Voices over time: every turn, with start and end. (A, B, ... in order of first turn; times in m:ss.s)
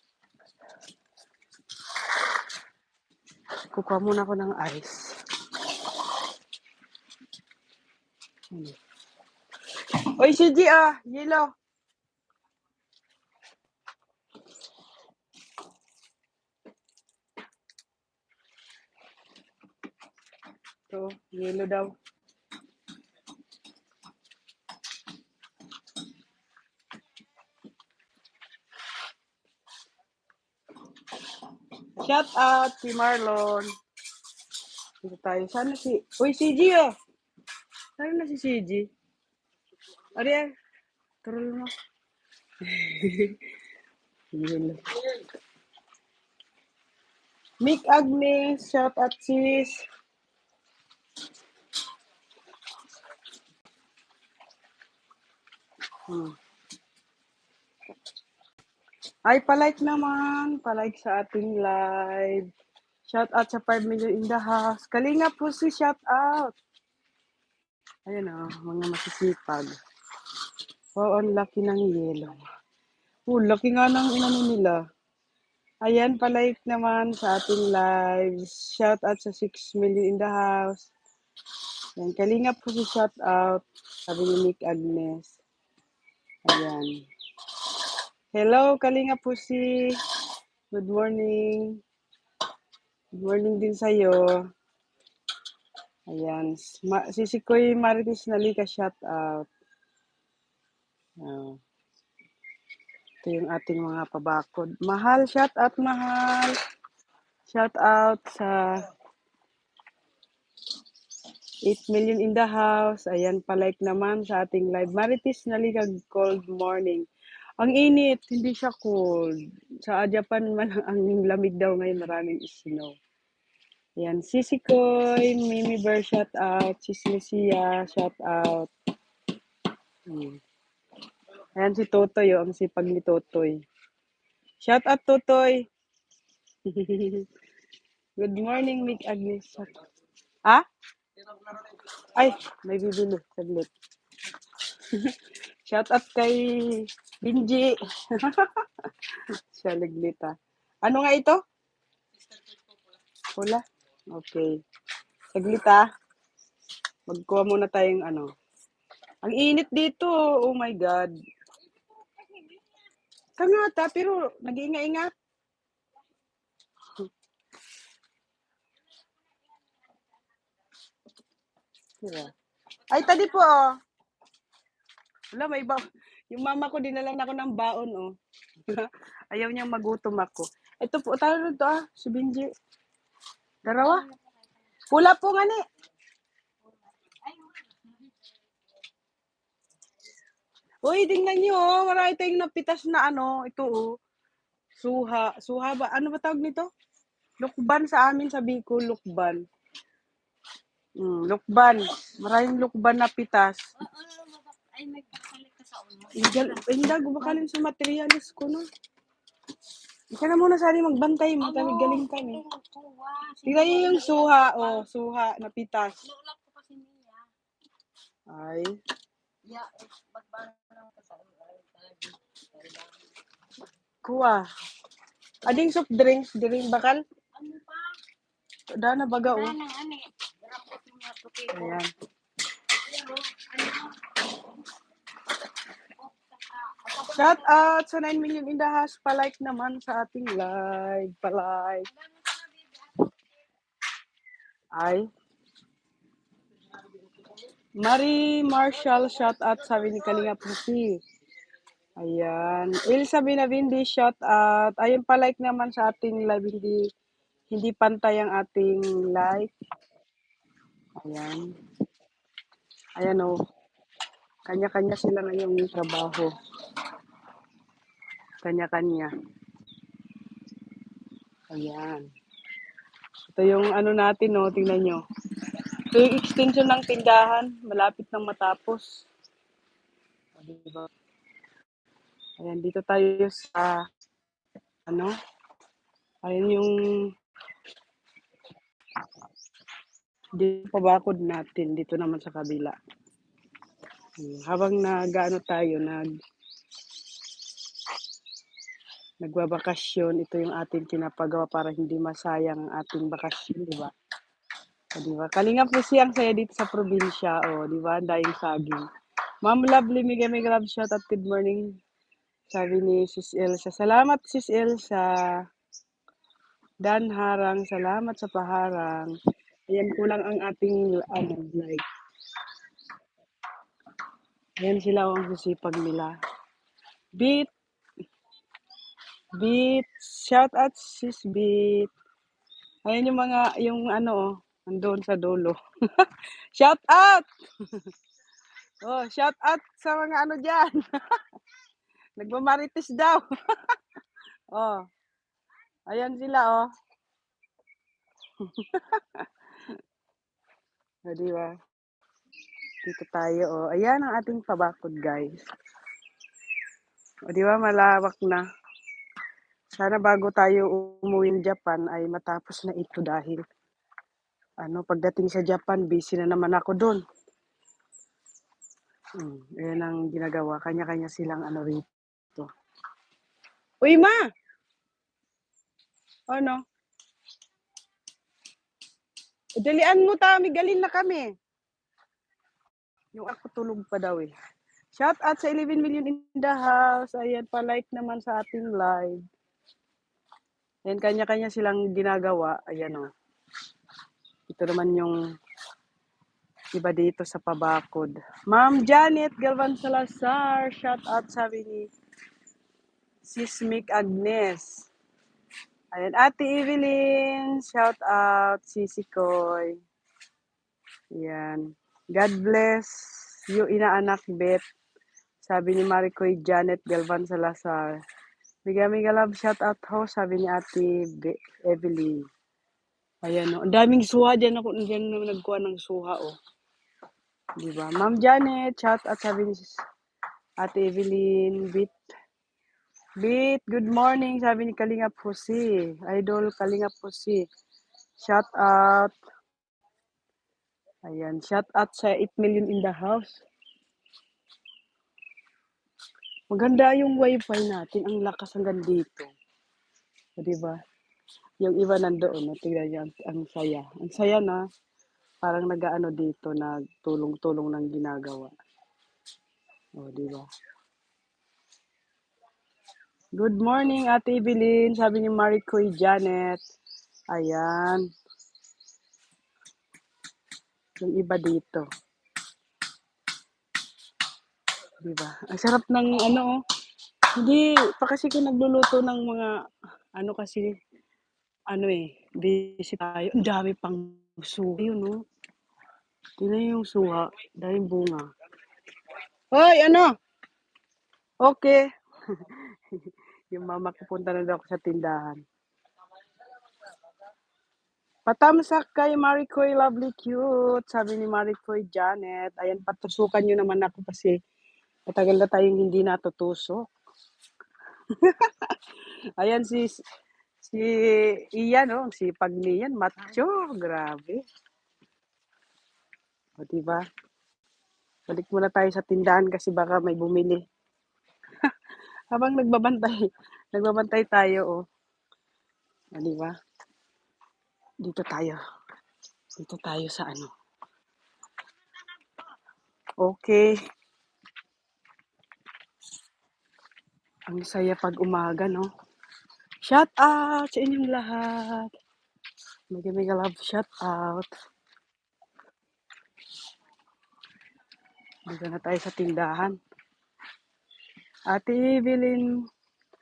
0:03.7-0:05.1 A
0:10.2-0:11.5 A
0:20.9-0:21.9 A
0:32.0-0:33.7 A
0:35.0-0:36.9 A
0:38.0-0:38.9 A
0:40.2-0:40.4 A
0:41.2-0:41.7 A
0:42.6-0:43.4 A
0:44.3-0:44.8 A
0:47.6-0:49.8 A
0:56.1-0:56.3 A
0:59.3-1:02.4 A
1:03.1-1:06.5 A
1:08.1-1:09.8 A
1:11.0-1:12.4 A
1:13.3-1:14.8 A
1:15.8-1:20.9 A
1:22.0-1:25.4 A
1:26.5-1:26.9 A
1:28.3-1:30.0 A
1:30.7-1:31.8 A
1:33.2-1:34.4 A
1:36.1-1:39.5 A
1:41.2-1:41.6 A
1:43.2-1:46.6 A
1:47.5-1:48.8 A
1:51.6-1:57.0 A
1:57.6-2:03.0 A
2:04.0-2:08.7 A
2:10.1-2:10.4 A
2:11.6-2:13.6 A
2:14.6-2:15.6 A
2:16.6-2:17.3 A
2:18.2-2:19.7 A
2:22.0-2:23.7 A
2:24.9-2:25.2 A
2:25.7-2:28.6 A
2:29.5-2:31.4 A
2:33.4-2:33.6 A
2:34.1-2:34.5 A
2:35.3-2:35.8 A
2:37.1-2:38.3 A
2:39.2-2:41.1 A
2:41.7-2:42.8 B
2:43.4-2:45.1 A
2:49.0-2:50.5 B
2:52.0-2:52.3 A
2:52.9-2:53.7 A
2:52.9-2:53.4 B
2:55.3-2:55.8 A
2:56.3-2:58.1 A
2:58.6-3:02.5 A
3:03.6-3:04.0 A
3:03.8-3:04.4 B
3:04.9-3:05.6 A
3:06.6-3:08.2 B
3:10.8-3:13.9 A
3:14.8-3:16.7 A
3:17.4-3:19.4 A
3:21.0-3:23.6 A
3:23.8-3:27.4 B
3:26.1-3:28.6 A
3:30.1-3:32.4 A
3:31.4-3:34.8 B
3:33.4-3:36.0 A
3:36.0-3:37.2 B
3:38.3-3:38.7 A
3:39.4-3:42.9 B
3:44.0-3:44.4 A
3:45.4-3:47.0 A
3:47.4-3:47.9 B
3:48.8-3:49.5 A
3:49.2-3:51.8 B
3:51.5-3:51.9 A
3:52.7-3:54.4 B
3:56.0-3:57.6 B
3:57.1-4:01.9 A
4:01.9-4:03.2 B
4:04.7-4:05.0 A
4:07.8-4:11.0 A
4:12.0-4:16.8 A
4:17.5-4:19.5 A
4:21.0-4:21.4 A
4:23.0-4:23.4 A
4:24.5-4:26.3 A
4:28.4-4:29.1 A
4:31.5-4:32.0 A
4:33.3-4:35.0 A
4:35.9-4:38.8 A
4:40.4-4:40.9 A
4:42.4-4:43.8 A
4:44.9-4:45.1 A
4:46.2-4:46.7 A
4:50.4-4:52.8 A
4:54.2-4:56.0 A
4:59.2-5:03.9 A
5:05.0-5:08.8 A
5:09.4-5:11.7 A
5:12.5-5:15.3 A
5:16.8-5:19.1 A
5:19.7-5:21.8 A
5:24.6-5:26.1 A
5:27.2-5:27.5 A
5:29.4-5:31.9 A
5:32.8-5:37.9 A
5:38.8-5:41.2 A
5:42.2-5:43.8 A
5:44.5-5:44.8 A
5:45.9-5:46.7 A
5:48.4-5:49.3 A
5:51.1-5:51.5 A
5:52.8-5:55.4 A
5:57.3-5:58.4 A
5:59.7-6:03.4 A
6:04.6-6:07.0 A
6:09.2-6:12.5 A
6:13.8-6:14.2 A
6:16.3-6:16.6 A
6:19.6-6:21.3 A
6:23.1-6:24.3 A
6:25.0-6:29.2 A
6:30.8-6:33.1 A
6:34.5-6:35.2 A
6:36.7-6:41.9 A
6:43.2-6:44.9 A
6:45.9-6:49.8 A
6:51.2-6:53.0 A
6:53.5-6:54.6 A
6:55.4-6:58.0 A
6:58.6-7:02.2 A
7:03.2-7:06.3 A
7:07.6-7:09.8 A
7:10.6-7:11.9 A
7:13.2-7:17.4 A
7:18.2-7:19.1 A
7:21.1-7:23.4 A
7:26.5-7:29.3 A
7:30.4-7:30.8 A
7:31.6-7:34.6 A
7:35.4-7:38.5 A
7:40.0-7:40.4 A
7:43.4-7:46.6 A
7:47.3-7:48.0 A
7:51.0-7:51.8 A
7:55.0-7:56.5 A
7:57.4-7:59.5 A
8:00.2-8:00.7 A
8:01.7-8:05.2 A
8:06.4-8:08.2 A
8:09.5-8:10.1 A
8:11.4-8:11.8 A
8:12.3-8:15.4 A
8:18.2-8:24.4 A
8:25.1-8:26.8 A
8:28.1-8:28.8 A
8:29.4-8:30.0 A
8:30.6-8:34.4 A
8:36.6-8:37.0 A
8:38.3-8:40.6 A
8:42.3-8:44.8 A
8:46.2-8:46.5 A
8:48.0-8:48.6 A
8:49.6-8:50.5 A
8:53.2-8:53.7 A
8:57.5-8:58.9 A
8:59.8-9:01.9 A
9:02.9-9:04.5 A
9:08.5-9:09.8 A
9:11.5-9:12.4 A